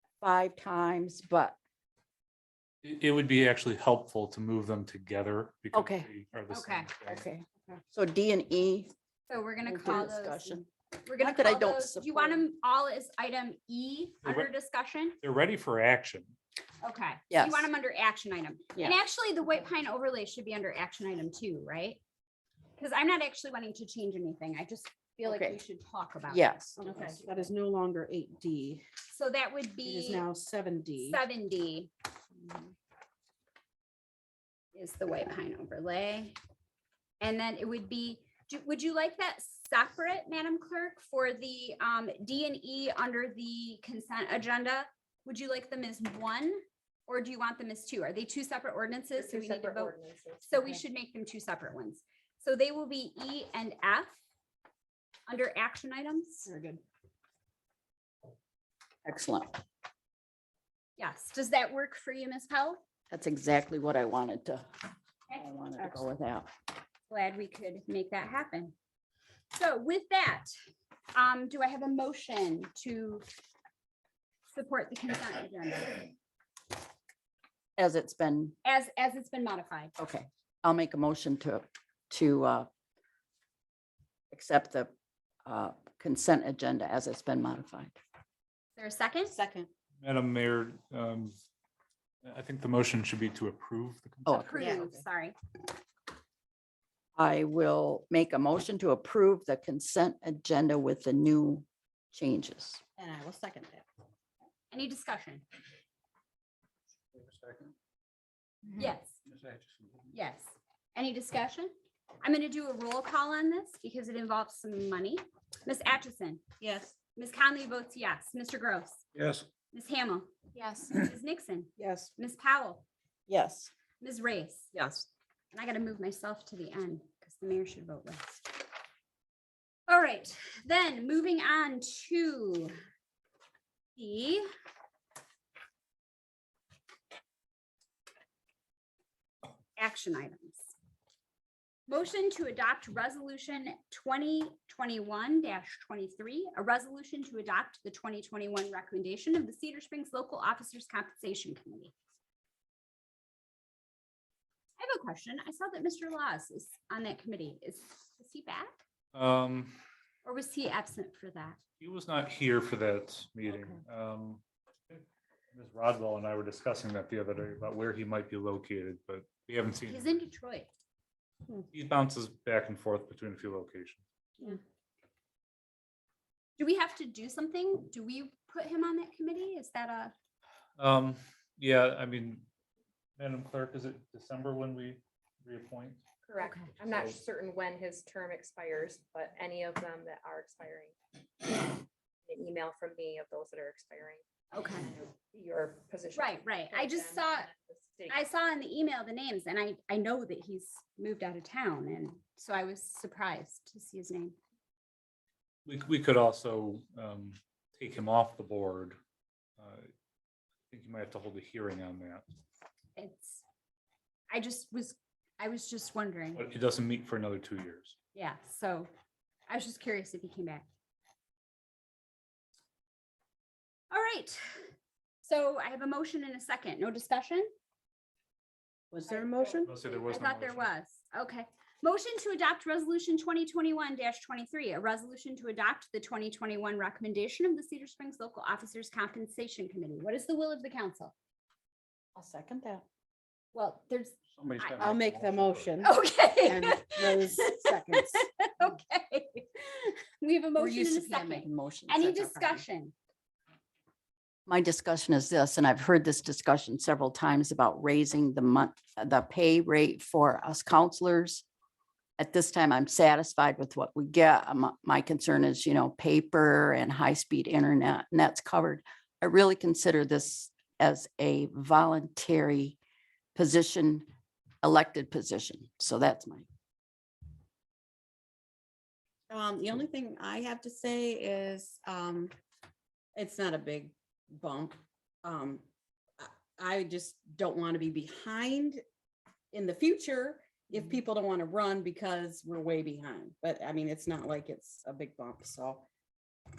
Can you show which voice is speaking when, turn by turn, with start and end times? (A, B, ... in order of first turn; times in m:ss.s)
0:00.2-0:01.6 A
0:02.8-0:07.2 B
0:05.7-0:06.1 A
0:06.5-0:06.9 C
0:07.0-0:08.9 A
0:09.3-0:15.2 C
0:09.6-0:10.6 A
0:11.2-0:12.4 A
0:14.2-0:14.5 B
0:15.2-0:16.4 B
0:16.8-0:22.0 C
0:17.3-0:17.7 A
0:22.8-0:27.0 C
0:25.2-0:25.6 A
0:26.3-0:27.0 A
0:26.8-0:28.8 D
0:29.1-0:30.3 C
0:29.8-0:31.2 D
0:31.0-0:31.9 C
0:34.7-0:36.4 C
0:37.2-0:49.9 C
0:49.1-0:50.8 E
0:50.5-0:54.1 C
0:55.3-0:56.5 C
0:56.4-0:56.8 D
0:59.0-0:59.5 A
1:01.0-1:02.8 C
1:03.1-1:04.7 A
1:05.3-1:06.1 C
1:05.3-1:06.5 A
1:07.1-1:08.7 C
1:09.5-1:10.5 C
1:11.1-1:13.2 C
1:14.5-1:16.1 C
1:17.8-1:18.5 A
1:18.6-1:19.9 C
1:20.0-1:22.7 A
1:24.3-1:24.9 A
1:25.4-1:28.0 A
1:28.8-1:29.4 C
1:29.3-1:29.7 D
1:30.0-1:31.3 B
1:32.2-1:34.6 B
1:34.2-1:34.8 A
1:34.3-1:35.4 C
1:34.6-1:35.0 D
1:37.2-1:42.8 A
1:43.0-1:43.8 D
1:44.7-1:45.4 C
1:47.1-1:47.7 B
1:48.8-1:49.2 C
1:49.3-1:50.1 B
1:50.1-1:51.7 C
1:52.2-1:56.4 C
1:56.6-1:56.9 D
1:57.1-1:59.0 C
1:59.1-1:59.4 B
1:59.7-2:00.3 C
2:00.9-2:02.8 C
2:01.8-2:02.1 D
2:03.3-2:03.7 D
2:04.0-2:04.7 C
2:04.7-2:05.0 D
2:05.5-2:08.6 C
2:09.9-2:12.7 C
2:14.0-2:14.4 C
2:19.8-2:20.7 C
2:21.9-2:31.9 C
2:34.8-2:38.8 C
2:39.1-2:39.8 B
2:40.2-2:41.6 C
2:41.8-2:50.2 B
2:49.9-2:50.7 C
2:51.7-2:54.0 B
2:56.6-3:00.1 C
3:00.8-3:02.4 B
3:03.2-3:06.0 B
3:06.2-3:10.9 E
3:06.4-3:06.7 C
3:06.7-3:07.2 B
3:11.5-3:14.2 E
3:14.5-3:14.9 C
3:14.8-3:18.2 E
3:16.1-3:17.5 C
3:18.1-3:24.3 C
3:25.6-3:29.0 B
3:29.6-3:29.9 B
3:30.7-3:32.2 B
3:33.0-3:33.4 C
3:34.3-3:36.4 C
3:36.3-3:38.0 B
3:38.1-3:38.9 C
3:39.5-3:40.6 C
3:43.9-3:44.7 C
3:45.2-3:47.5 C
3:48.9-3:49.7 D
3:49.4-3:49.7 A
3:49.6-3:50.7 B
3:50.0-4:01.1 C
4:02.2-4:02.8 D
4:03.5-4:04.9 C
4:04.3-4:05.8 B
4:04.8-4:08.2 D
4:05.8-4:12.9 C
4:10.6-4:12.6 A
4:14.5-4:21.4 A
4:22.2-4:32.8 A
4:33.3-4:34.0 A
4:34.6-4:36.5 A
4:39.3-4:42.3 D
4:43.2-4:45.6 D
4:46.2-4:48.8 D
4:49.5-4:55.8 D